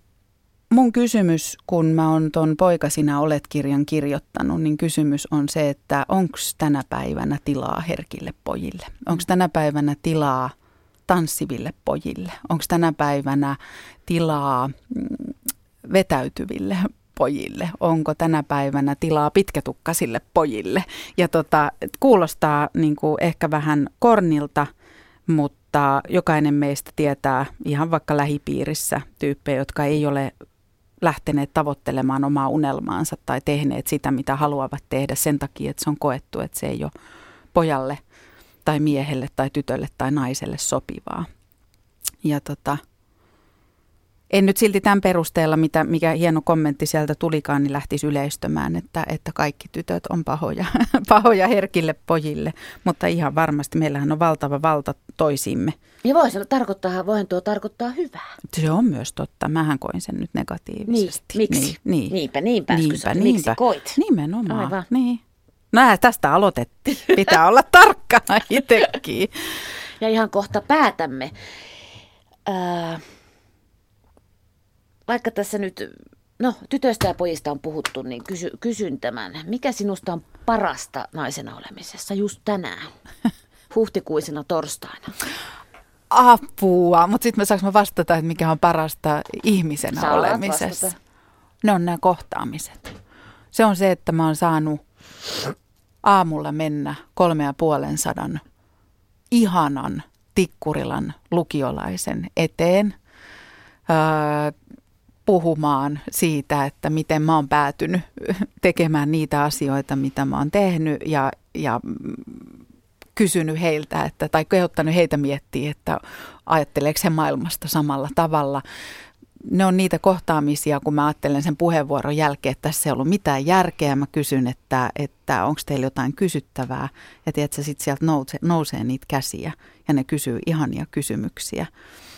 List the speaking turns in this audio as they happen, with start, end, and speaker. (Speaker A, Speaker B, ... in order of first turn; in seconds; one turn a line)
Speaker A: 0.7-10.5
Speaker A: 11.1-15.3
Speaker A: 15.8-24.7
Speaker A: 25.3-30.3
Speaker A: 31.0-36.9
Speaker A: 37.5-38.0
Speaker A: 38.6-41.3
Speaker A: 42.2-42.8
Speaker A: 44.3-55.7
Speaker B: 56.0-58.4
Speaker A: 58.5-62.2
Speaker B: 60.9-64.8
Speaker A: 62.7-65.2
Speaker A: 65.7-69.3
Speaker B: 70.0-71.3
Speaker B: 72.5-73.0
Speaker B: 75.1-82.9
Speaker B: 83.7-85.2
Speaker A: 86.1-90.9
Speaker B: 90.0-91.0
Speaker A: 91.6-93.0
Speaker A: 93.5-94.8
Speaker A: 96.0-98.4
Speaker A: 99.3-102.9
Speaker A: 103.9-104.5
Speaker A: 105.2-112.5
Speaker A: 113.2-118.6
Speaker A: 119.4-131.7